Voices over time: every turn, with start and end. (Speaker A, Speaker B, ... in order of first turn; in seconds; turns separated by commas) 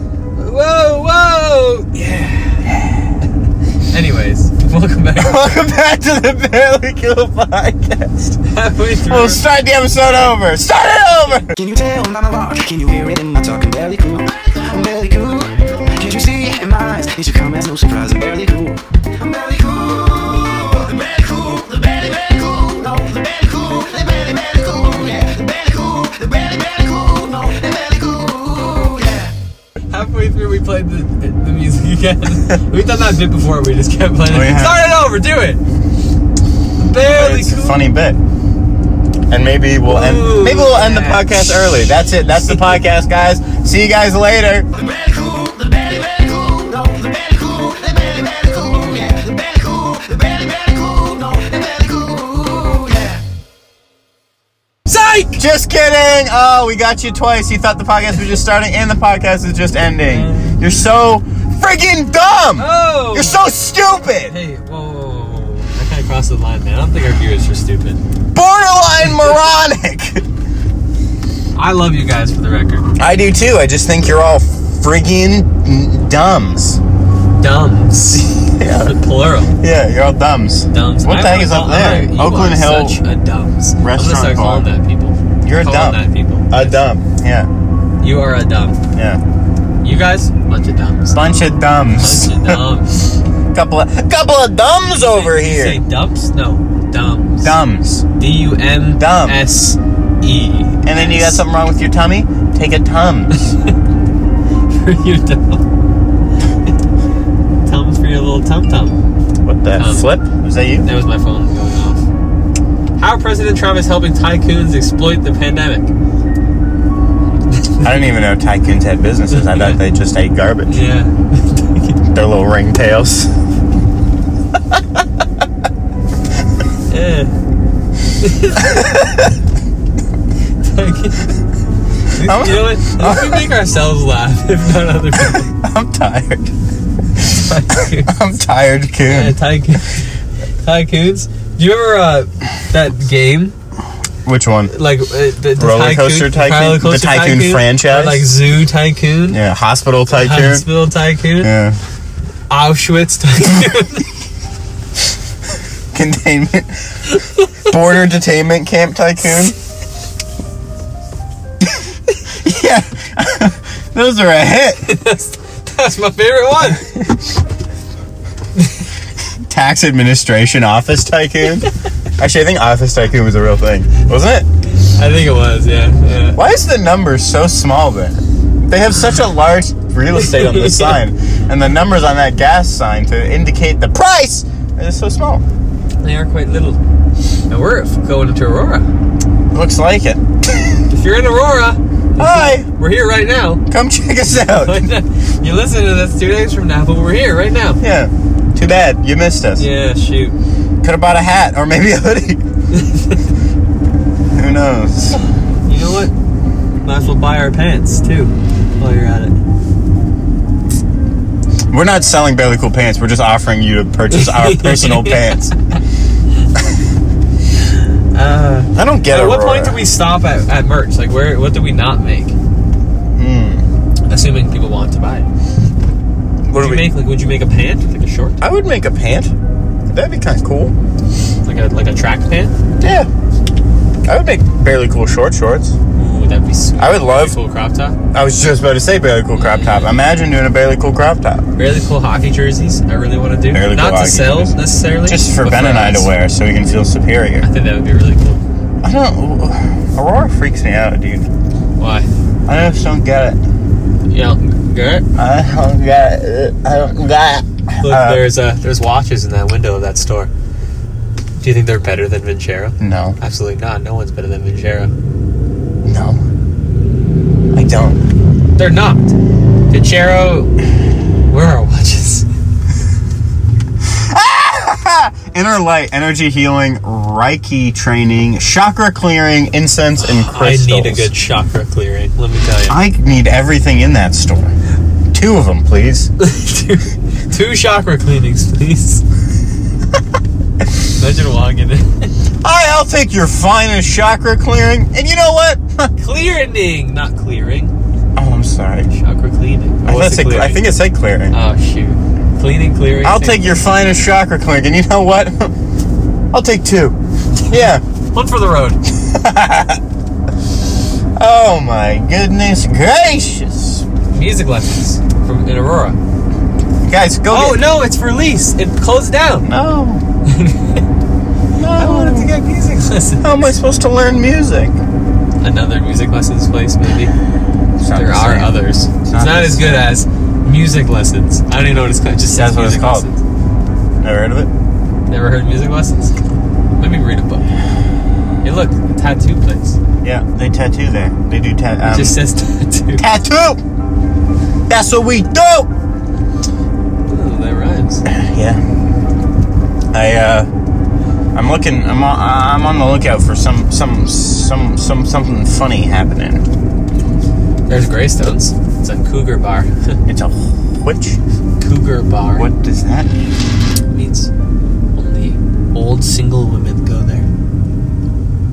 Speaker A: 0.4-2.6, Speaker A: 3.9-5.5, Speaker B: 5.2-8.4, Speaker A: 8.4-9.4, Speaker B: 9.1-11.5, Speaker C: 11.5-29.3, Speaker A: 29.9-35.6, Speaker B: 34.2-34.9, Speaker A: 36.8-37.9, Speaker B: 37.1-38.2, Speaker B: 39.3-44.7, Speaker A: 39.8-42.7, Speaker C: 44.7-53.2, Speaker A: 54.9-55.4, Speaker B: 55.4-64.4, Speaker A: 60.0-60.6, Speaker A: 62.5-63.5, Speaker A: 64.2-68.0, Speaker B: 68.3-70.2, Speaker A: 71.5-72.9, Speaker B: 73.0-76.8, Speaker A: 77.4-79.5, Speaker B: 78.4-79.0, Speaker B: 79.6-83.0, Speaker A: 80.7-86.8, Speaker B: 83.8-84.7, Speaker B: 85.4-87.5, Speaker A: 88.0-88.8, Speaker B: 88.9-89.2, Speaker A: 89.8-91.2, Speaker B: 91.1-92.6, Speaker A: 92.0-93.1, Speaker B: 93.5-95.8, Speaker A: 94.9-97.6, Speaker B: 97.4-98.0, Speaker A: 98.2-101.4, Speaker B: 99.0-99.5, Speaker B: 100.8-103.4, Speaker A: 103.3-103.7, Speaker A: 104.7-105.6, Speaker A: 107.6-109.0, Speaker B: 109.4-110.9, Speaker A: 109.8-110.1, Speaker A: 110.8-112.0, Speaker A: 113.0-115.9, Speaker B: 117.8-120.8, Speaker A: 119.3-119.8, Speaker A: 120.7-122.0, Speaker B: 122.1-123.3, Speaker A: 126.9-127.3, Speaker A: 128.2-128.8, Speaker B: 128.6-129.2, Speaker A: 130.6-131.3, Speaker A: 132.1-135.5, Speaker B: 132.2-133.5, Speaker B: 135.2-136.5, Speaker A: 137.2-138.1, Speaker B: 137.7-139.4, Speaker A: 139.1-140.1, Speaker A: 140.6-143.5, Speaker B: 144.2-144.7, Speaker A: 144.7-149.4, Speaker B: 145.6-148.3, Speaker B: 149.3-150.7, Speaker A: 150.1-151.5, Speaker B: 151.4-151.8, Speaker A: 152.5-154.1, Speaker B: 155.9-159.5, Speaker A: 157.2-157.5, Speaker B: 161.6-164.8, Speaker A: 164.8-166.8, Speaker B: 166.7-167.2, Speaker A: 168.6-168.8, Speaker B: 169.4-174.5, Speaker A: 174.9-176.4, Speaker B: 176.3-185.4, Speaker A: 180.2-181.0, Speaker A: 186.0-186.8, Speaker A: 187.5-188.9, Speaker B: 189.5-190.8, Speaker A: 190.9-193.6, Speaker B: 192.2-192.7, Speaker B: 193.7-194.9, Speaker A: 194.3-197.8, Speaker B: 197.8-199.6, Speaker A: 199.6-200.4, Speaker B: 200.8-202.4, Speaker A: 202.7-203.2, Speaker B: 204.3-205.2, Speaker A: 205.1-206.1, Speaker A: 206.8-209.4, Speaker B: 211.7-215.5, Speaker A: 214.1-215.5, Speaker A: 217.7-222.3, Speaker B: 218.7-219.8, Speaker B: 223.1-223.7, Speaker A: 224.1-225.3, Speaker B: 226.5-226.9, Speaker A: 226.5-228.4, Speaker B: 228.4-229.3, Speaker B: 229.9-230.7, Speaker A: 231.4-232.5, Speaker B: 232.8-233.1, Speaker B: 234.1-235.8, Speaker A: 235.9-238.0, Speaker B: 236.8-237.3, Speaker B: 238.1-241.4, Speaker A: 239.3-240.0, Speaker A: 241.6-246.1, Speaker B: 243.5-247.5, Speaker A: 247.4-248.4, Speaker B: 248.8-251.3, Speaker A: 251.8-252.1, Speaker B: 252.5-253.4, Speaker A: 254.1-255.0, Speaker B: 255.2-258.2, Speaker A: 257.8-260.3, Speaker A: 261.4-264.9, Speaker B: 262.8-263.2, Speaker B: 265.8-266.2, Speaker B: 267.5-268.0, Speaker A: 268.6-269.1, Speaker A: 269.7-270.5, Speaker A: 271.3-272.2, Speaker B: 273.8-281.1, Speaker A: 280.0-282.8, Speaker B: 282.7-284.5, Speaker B: 285.1-286.1, Speaker A: 286.2-289.0, Speaker A: 290.9-292.1, Speaker B: 292.4-295.9, Speaker A: 296.0-297.7, Speaker B: 298.1-298.9, Speaker A: 298.9-300.7, Speaker B: 299.8-301.4, Speaker A: 301.3-303.6, Speaker B: 303.0-305.5, Speaker B: 306.3-306.9, Speaker B: 307.5-307.8, Speaker A: 308.1-308.8, Speaker B: 309.0-309.8, Speaker B: 311.2-313.8, Speaker A: 314.1-316.0, Speaker B: 316.9-317.7, Speaker A: 317.3-319.5, Speaker B: 319.4-320.0, Speaker A: 320.3-320.8, Speaker B: 321.6-322.3, Speaker A: 321.7-323.3, Speaker B: 323.2-324.8, Speaker A: 325.4-327.1, Speaker B: 327.8-329.9, Speaker A: 327.9-333.2, Speaker B: 332.3-333.1, Speaker B: 334.0-334.5, Speaker A: 335.1-336.1, Speaker A: 336.8-337.4, Speaker A: 338.4-339.8, Speaker B: 340.0-342.2, Speaker A: 341.9-343.0, Speaker B: 343.0-343.6, Speaker B: 344.7-345.7, Speaker A: 347.1-348.0, Speaker B: 348.1-348.6, Speaker B: 349.9-350.5, Speaker B: 351.3-356.4, Speaker A: 357.7-359.9, Speaker B: 360.1-361.2, Speaker A: 361.6-362.5, Speaker B: 362.3-363.2, Speaker A: 363.9-364.3, Speaker A: 364.9-367.3